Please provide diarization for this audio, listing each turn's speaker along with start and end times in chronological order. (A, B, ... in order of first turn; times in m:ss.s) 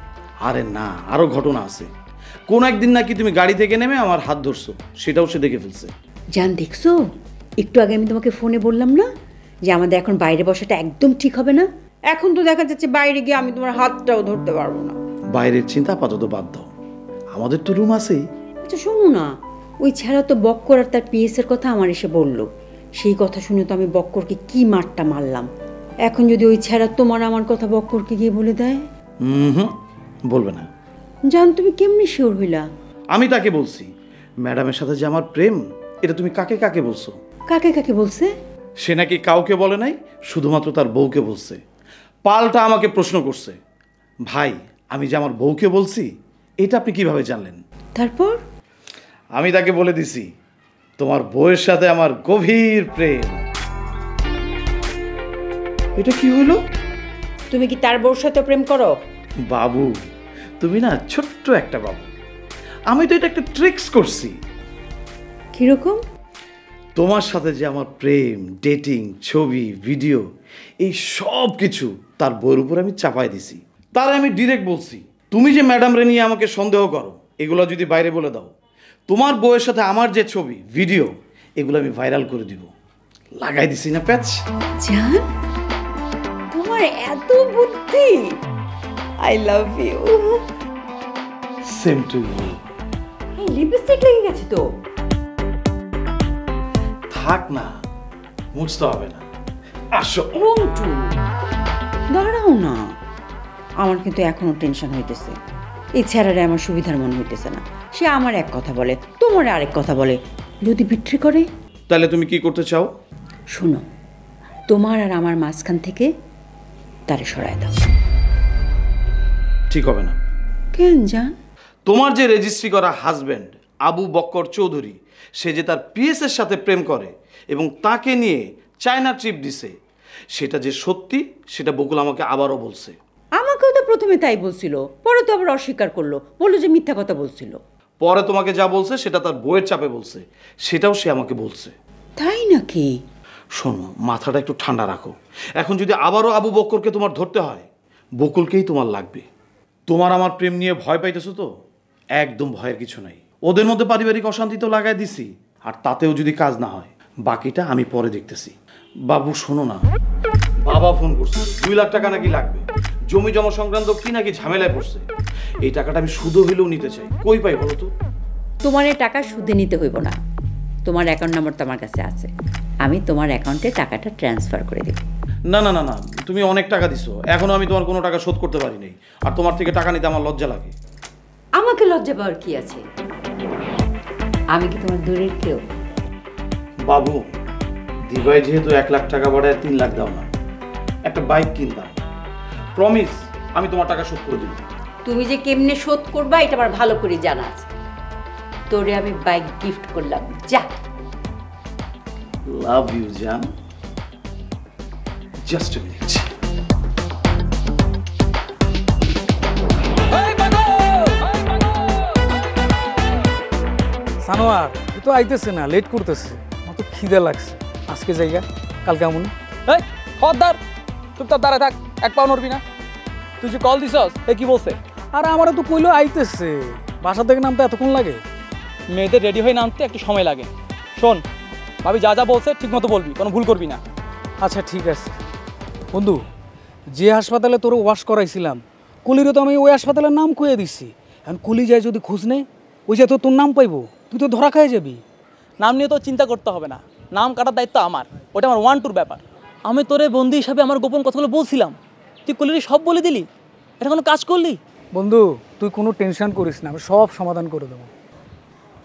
0:00.4-0:01.9 A
0:02.5-0:05.9 A
0:06.4-0:07.0 B
0:07.6-0:09.1 B
0:09.7-0:15.0 B
0:15.3-0:16.7 A
0:17.3-0:18.2 A
0:18.6-0:19.3 B
0:19.8-0:25.5 B
0:26.1-0:28.8 B
0:29.2-0:29.7 A
0:30.3-0:30.7 A
0:31.3-0:32.7 B
0:33.1-0:33.9 A
0:34.4-0:37.2 A
0:37.5-0:38.3 B
0:38.8-0:41.6 A
0:42.2-0:43.6 A
0:44.3-0:46.1 A
0:46.6-0:47.6 A
0:48.0-0:48.4 B
0:49.4-0:50.3 A
0:51.0-0:53.4 A
0:56.0-0:56.6 A
0:57.5-0:58.9 B
0:59.5-0:59.9 A
1:00.6-1:02.1 A
1:02.9-1:04.4 A
1:05.6-1:06.0 B
1:07.0-1:10.2 A
1:10.8-1:18.5 A
1:19.1-1:22.7 A
1:23.4-1:24.4 A
1:24.8-1:25.2 B
1:26.5-1:28.3 B
1:29.2-1:30.4 B
1:31.6-1:32.6 A
1:33.4-1:34.6 B
1:37.1-1:37.7 A
1:38.6-1:39.2 A
1:39.9-1:40.3 A
1:40.4-1:41.1 B
1:42.1-1:42.9 B
1:43.8-1:45.4 B
1:46.0-1:51.5 B
1:51.9-1:52.9 A
1:53.5-1:53.8 B
1:54.7-1:56.1 B
1:57.1-1:57.8 B
1:59.7-2:00.2 A
2:00.7-2:01.3 B
2:01.9-2:09.8 A
2:10.3-2:13.0 A
2:13.4-2:17.6 B
2:18.0-2:21.7 A
2:22.2-2:22.9 B
2:23.6-2:27.7 A
2:28.2-2:29.3 A
2:29.9-2:31.5 A
2:32.2-2:38.6 A
2:39.1-2:39.8 A
2:40.7-2:45.0 A
2:45.6-2:47.9 A
2:48.6-2:50.2 B
2:50.9-2:52.3 B
2:52.8-2:55.0 B
2:55.5-3:00.7 A
3:01.6-3:02.8 B
3:04.5-3:05.6 B
3:06.9-3:07.2 A
3:08.1-3:10.3 A
3:11.1-3:12.0 A
3:12.8-3:14.6 A
3:15.0-3:17.7 B
3:18.7-3:20.7 B
3:22.5-3:23.5 A
3:25.4-3:26.3 A
3:30.1-3:32.3 C
3:34.2-3:39.3 D
3:39.7-3:40.6 C
3:41.2-3:42.6 C
3:43.4-3:44.8 C
3:45.2-3:48.2 D
3:48.9-3:51.2 C
3:51.8-3:53.8 C
3:54.4-3:55.2 D
3:55.9-3:56.2 D
3:56.9-4:05.0 D
4:05.6-4:13.3 C
4:13.8-4:14.6 C
4:15.0-4:17.9 D